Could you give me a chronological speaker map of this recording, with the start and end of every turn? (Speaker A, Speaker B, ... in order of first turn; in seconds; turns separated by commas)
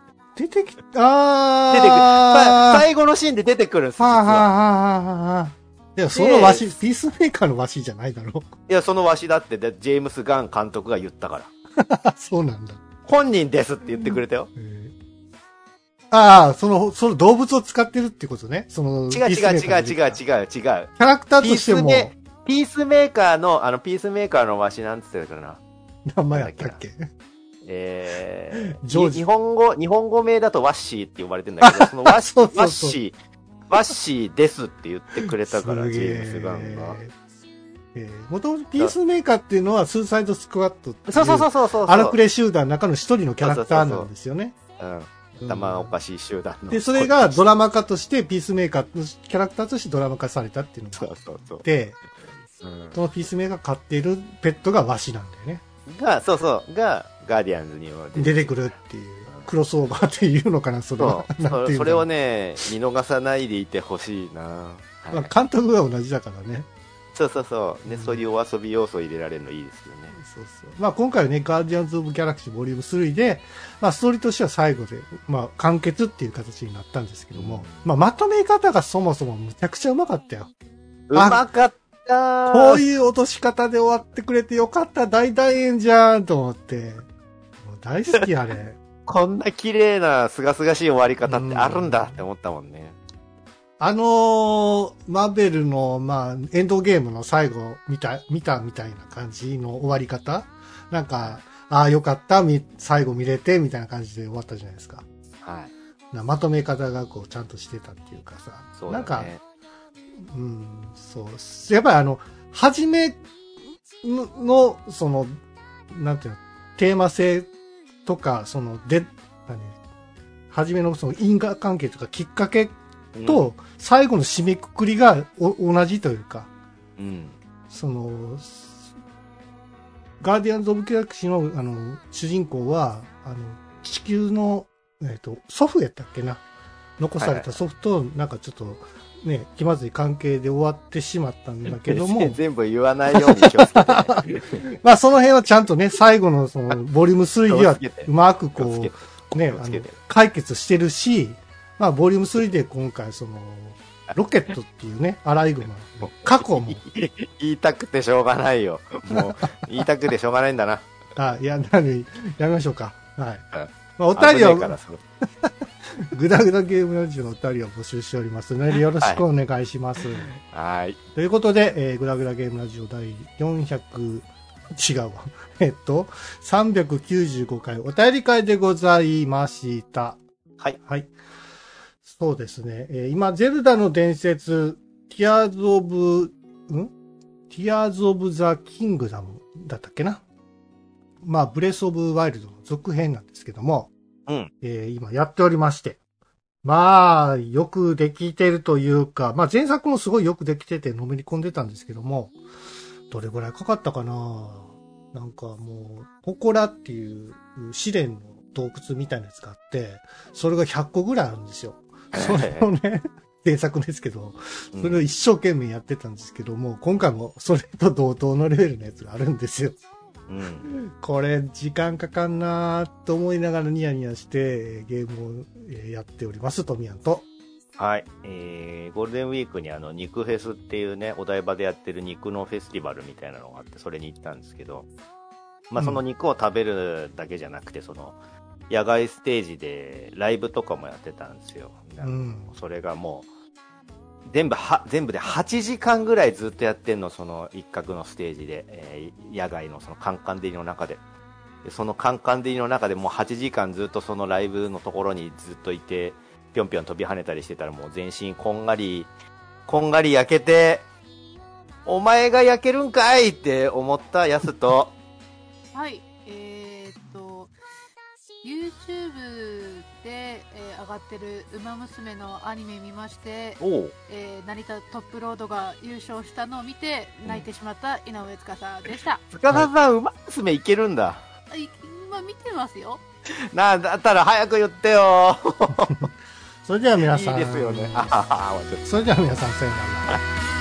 Speaker A: 0.3-2.9, Speaker B: 1.7-4.5, Speaker A: 4.0-8.5, Speaker B: 6.1-6.7, Speaker B: 8.7-11.5, Speaker A: 11.8-12.8, Speaker B: 13.1-14.5, Speaker A: 14.0-14.9, Speaker A: 16.1-20.2, Speaker B: 19.1-25.6, Speaker A: 21.0-22.1, Speaker A: 26.1-27.1, Speaker B: 26.3-26.8, Speaker B: 27.6-33.1, Speaker A: 28.5-29.2, Speaker A: 31.6-33.0, Speaker B: 33.7-37.0, Speaker A: 35.5-37.1, Speaker A: 37.9-44.6, Speaker B: 41.1-42.2, Speaker B: 43.4-44.1, Speaker B: 44.8-47.4, Speaker A: 45.4-45.9, Speaker A: 46.7-51.1, Speaker B: 51.0-51.6, Speaker A: 51.6-52.0, Speaker B: 52.6-53.0, Speaker A: 52.9-55.6, Speaker B: 55.9-58.5, Speaker A: 58.1-62.0, Speaker B: 61.0-65.3, Speaker A: 65.1-66.7, Speaker B: 67.1-70.2, Speaker A: 67.9-68.2, Speaker A: 70.2-80.5, Speaker B: 77.3-77.9, Speaker B: 81.1-82.8, Speaker A: 81.1-81.4, Speaker A: 82.5-87.0, Speaker A: 87.6-88.8, Speaker B: 89.0-93.0, Speaker A: 91.2-92.2, Speaker A: 93.8-105.0, Speaker B: 105.4-105.7, Speaker A: 106.1-109.3, Speaker B: 108.8-109.4, Speaker A: 110.2-113.2, Speaker A: 114.0-115.4, Speaker A: 115.9-117.5, Speaker A: 118.0-119.8, Speaker A: 120.5-126.5, Speaker B: 123.1-123.5, Speaker B: 127.0-127.4, Speaker A: 127.7-128.8, Speaker A: 130.2-136.4, Speaker A: 137.0-142.4, Speaker B: 137.2-137.5, Speaker B: 141.7-144.7, Speaker A: 143.1-156.8, Speaker B: 147.5-150.0, Speaker B: 156.2-160.9, Speaker A: 159.1-159.4, Speaker A: 161.2-163.4, Speaker B: 163.5-165.0, Speaker A: 164.0-164.8, Speaker A: 165.4-170.3, Speaker B: 169.0-169.2, Speaker B: 170.1-171.0, Speaker A: 171.1-180.2, Speaker A: 180.8-181.1, Speaker A: 182.0-186.9, Speaker A: 187.5-190.2, Speaker A: 191.2-193.9, Speaker A: 194.6-196.0, Speaker A: 196.6-202.4, Speaker A: 203.1-219.8, Speaker B: 212.1-212.7, Speaker B: 214.7-215.0, Speaker B: 220.3-220.7, Speaker A: 220.6-227.2, Speaker B: 227.8-234.9, Speaker B: 235.7-238.2, Speaker A: 235.8-236.0, Speaker B: 238.7-243.3, Speaker A: 242.0-242.5, Speaker B: 244.2-251.0, Speaker B: 251.6-259.1, Speaker B: 259.7-260.9, Speaker B: 261.9-264.9, Speaker C: 265.7-267.5, Speaker C: 268.4-279.2, Speaker B: 273.6-273.9, Speaker B: 279.3-281.2, Speaker C: 281.5-283.0, Speaker B: 283.4-286.1, Speaker A: 285.7-286.1, Speaker A: 286.6-288.1, Speaker B: 287.0-289.1, Speaker A: 288.8-290.2